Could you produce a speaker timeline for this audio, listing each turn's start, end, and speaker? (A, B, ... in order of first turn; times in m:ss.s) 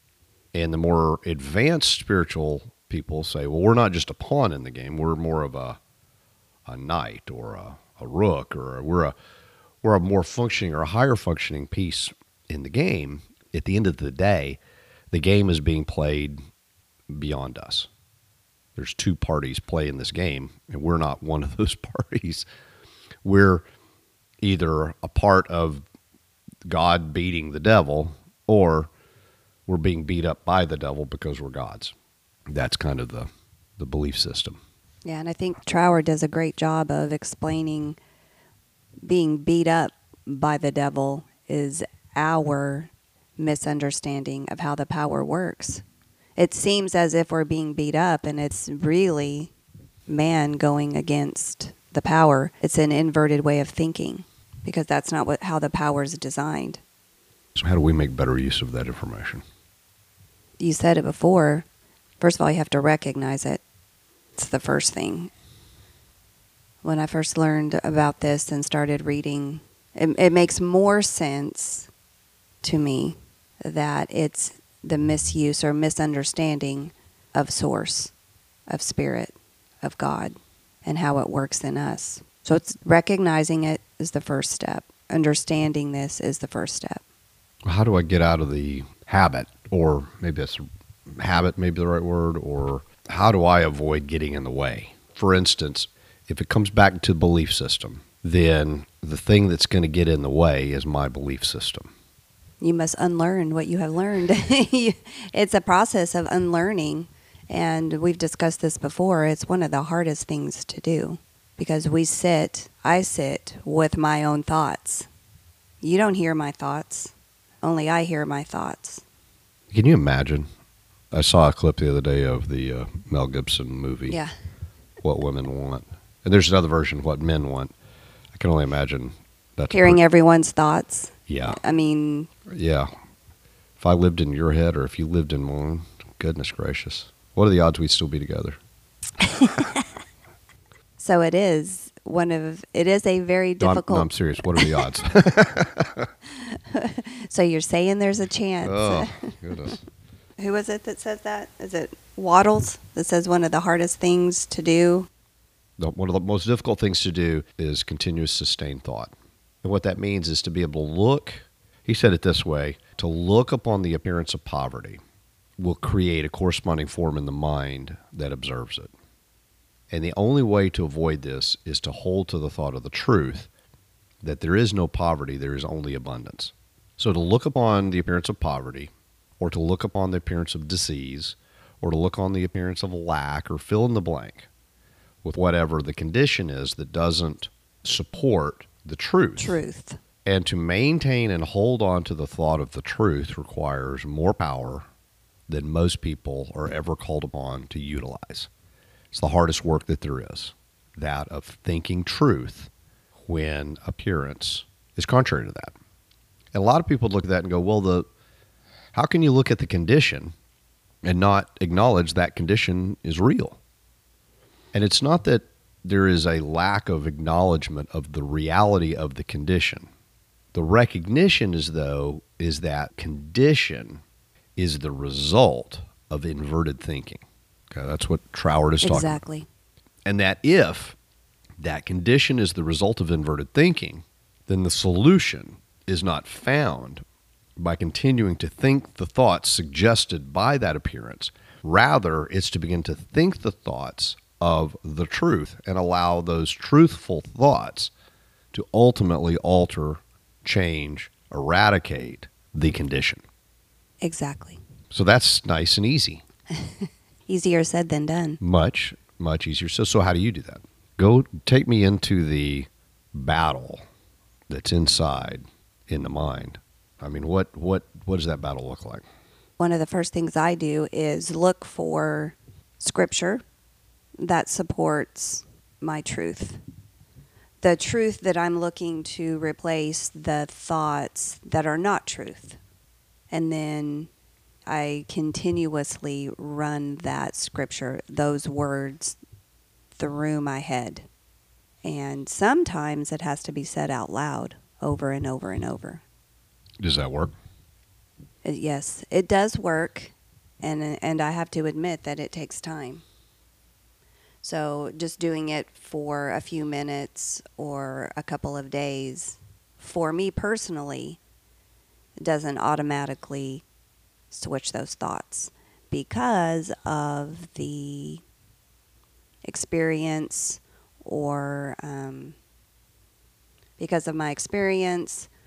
0:00.5-0:05.8 A
0:06.6-0:09.1 A
0:09.8-0:14.6 A
0:15.1-0:16.4 A
0:17.1-0:17.9 A
0:18.8-0:22.4 A
0:23.2-0:23.6 A
0:24.4-0:25.8 A
0:26.6-0:28.9 A
0:29.7-0:31.9 A
0:32.5-0:34.6 A
0:35.0-0:38.0 B
0:39.0-0:45.8 B
0:46.4-0:49.5 B
0:50.1-0:56.8 B
0:57.5-0:59.4 A
1:00.6-1:01.6 B
1:02.2-1:03.6 B
1:04.4-1:05.3 B
1:06.8-1:11.9 B
1:12.6-1:18.1 B
1:18.7-1:27.0 B
1:27.6-1:30.6 A
1:31.2-1:41.9 A
1:42.6-1:55.1 B
1:55.8-1:59.0 B
1:59.7-2:00.5 A
2:01.1-2:04.2 A
2:05.0-2:07.7 A
2:08.3-2:10.0 A
2:09.7-2:12.3 B
2:11.3-2:11.6 A
2:12.5-2:12.9 A
2:13.8-2:18.6 A
2:19.2-2:19.8 B
2:21.0-2:24.7 B
2:23.6-2:26.1 A
2:26.3-2:29.7 B
2:28.6-2:29.8 A
2:30.4-2:35.1 B
2:35.8-2:45.0 A
2:45.6-2:48.9 A
2:49.9-2:53.5 A
2:54.2-3:04.5 A
3:05.2-3:09.6 A
3:09.4-3:10.0 B
3:10.2-3:14.9 A
3:15.5-3:18.5 A
3:19.1-3:22.7 A
3:23.3-3:25.7 A
3:26.5-3:28.1 A
3:28.9-3:30.3 A
3:31.0-3:33.6 A
3:34.7-3:39.9 A
3:40.5-3:44.0 A
3:44.6-3:49.2 A
3:48.8-3:49.5 B
3:50.0-3:51.0 A
3:51.6-3:57.0 A
3:57.6-4:07.9 A
4:08.5-4:13.2 A
4:14.0-4:14.6 B
4:14.9-4:16.2 A
4:16.5-4:18.4 B
4:18.4-4:23.8 A
4:24.5-4:29.0 A
4:29.6-4:33.4 B
4:34.2-4:36.6 B
4:37.6-4:42.6 B
4:43.3-4:44.1 B
4:44.7-4:49.2 B
4:50.0-4:51.1 B
4:51.8-4:56.0 B
4:56.8-4:57.3 A
4:58.4-5:03.0 B
5:04.4-5:11.2 B
5:12.2-5:13.6 B
5:14.3-5:18.2 B
5:19.4-5:22.4 B
5:23.8-5:25.3 B